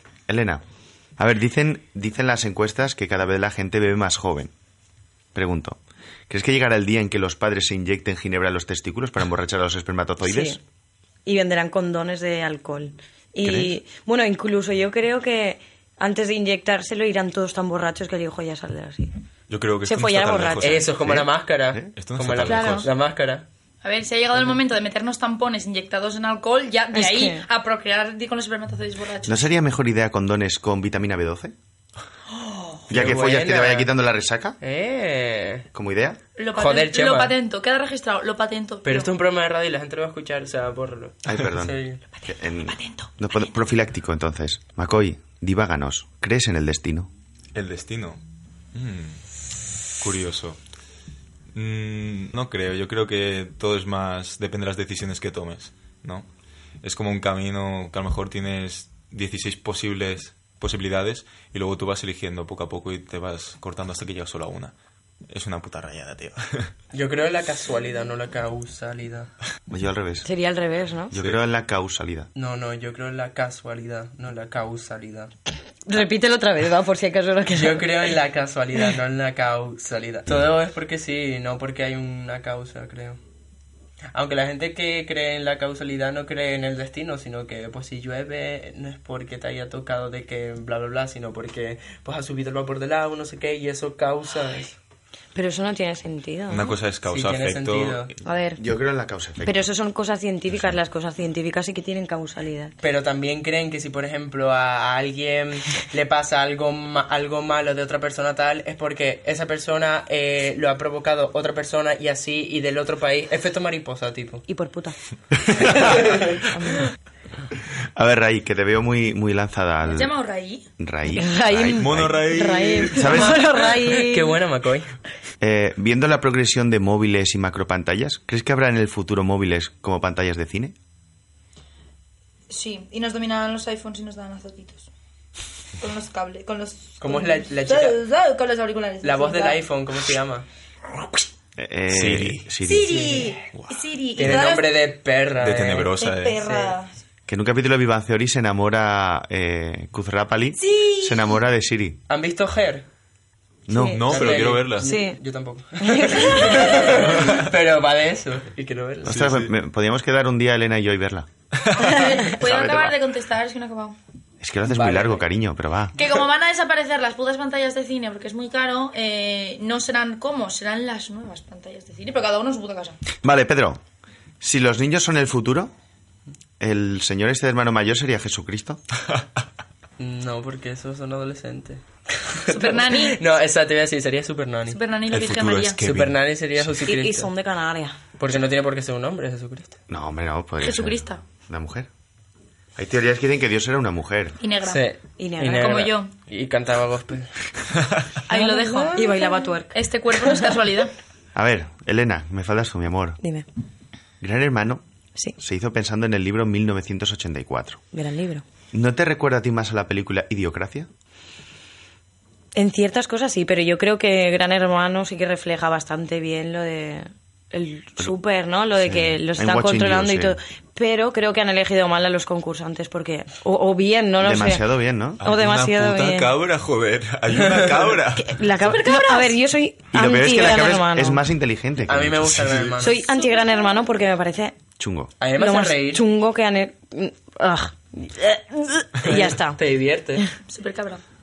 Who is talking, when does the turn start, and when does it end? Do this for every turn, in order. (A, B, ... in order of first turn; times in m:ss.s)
0:00.3-0:00.6 A
0:01.2-0:04.5 A
0:05.3-0:10.6 A
0:10.2-0:10.6 B
0:11.2-0:19.1 B
0:13.4-0:13.7 A
0:19.5-0:21.3 C
0:19.8-0:20.8 B
0:20.6-0:23.4 D
0:21.9-0:22.9 C
0:22.5-0:22.9 E
0:23.8-0:29.4 E
0:26.9-0:27.4 B
0:29.2-0:31.5 A
0:32.9-0:33.9 D
0:32.9-0:34.6 A
0:34.6-0:35.7 D
0:35.7-0:36.2 A
0:36.4-0:39.1 E
0:36.5-0:37.4 D
0:38.8-0:42.0 D
0:41.2-0:47.1 A
0:47.5-0:48.2 C
0:48.7-0:49.2 C
0:50.0-0:50.6 C
0:51.5-0:56.3 C
0:56.8-1:04.7 C
1:05.3-1:06.7 C
1:06.9-1:09.3 D
1:09.7-1:10.3 A
1:10.2-1:11.1 B
1:11.1-1:12.3 A
1:12.3-1:15.3 D
1:15.9-1:17.9 B
1:17.5-1:23.2 D
1:24.1-1:34.7 D
1:35.3-1:36.7 B
1:36.5-1:38.1 C
1:37.1-1:38.1 D
1:38.2-1:38.6 B
1:38.6-1:39.6 A
1:39.4-1:42.7 B
1:42.8-1:54.4 D
1:54.5-1:55.0 B
1:55.8-1:56.4 D
1:56.5-1:56.8 B
1:58.0-2:00.1 A
1:59.8-2:00.6 E
2:00.8-2:02.3 A
2:01.1-2:04.4 B
2:01.8-2:03.1 C
2:02.9-2:03.4 A
2:03.2-2:04.9 D
2:05.4-2:10.7 A
2:12.5-2:14.9 E
2:15.8-2:19.6 E
2:17.0-2:18.0 D
2:19.0-2:20.4 D
2:21.6-2:23.2 A
2:21.9-2:22.5 C
2:22.6-2:24.8 E
2:22.8-2:23.4 D
2:24.2-2:26.7 D
2:25.4-2:26.5 C
2:26.0-2:26.9 E
2:27.3-2:32.0 A
2:30.6-2:31.3 E
2:32.1-2:32.8 D
2:33.7-2:34.2 A
2:33.7-2:34.0 B
2:33.9-2:34.9 C
2:34.0-2:39.2 D
2:34.8-2:35.2 B
2:35.8-2:36.8 B
2:39.0-2:41.3 A
2:39.0-2:39.5 C
2:41.7-2:44.0 E
2:42.4-2:43.0 A
2:44.4-2:45.9 A
2:44.6-2:45.2 D
2:46.0-2:53.0 E
2:53.2-2:53.8 A
2:54.4-2:55.7 A
2:56.6-2:58.8 A
3:00.0-3:04.8 D
3:02.5-3:03.2 E
3:04.7-3:05.8 E
3:05.1-3:06.7 C
3:05.8-3:07.3 D
3:06.8-3:08.0 B
3:08.2-3:09.8 D
3:09.9-3:11.9 A
3:10.6-3:11.2 E
3:12.8-3:14.4 A
3:14.4-3:14.8 E
3:14.6-3:17.3 D
3:15.2-3:15.8 B
3:15.5-3:16.1 E
3:18.3-3:20.9 E
3:18.3-3:19.1 D
3:18.9-3:19.8 B
3:21.3-3:23.2 A
3:24.2-3:24.8 A
3:25.4-3:27.8 A
3:27.9-3:28.4 B
3:28.7-3:30.9 A
3:32.5-3:44.6 B
3:38.8-3:40.4 A
3:44.2-3:45.2 A
3:45.2-3:46.3 B
3:45.2-3:48.4 C
3:48.2-3:51.2 B
3:48.8-3:49.3 E
3:49.9-3:52.6 A
3:51.8-3:53.0 D
3:52.3-3:52.7 C
3:52.8-3:54.6 B
3:54.8-3:55.1 A
3:55.2-3:56.0 D
3:55.3-3:59.6 B
3:59.0-4:00.2 D
4:00.5-4:01.0 E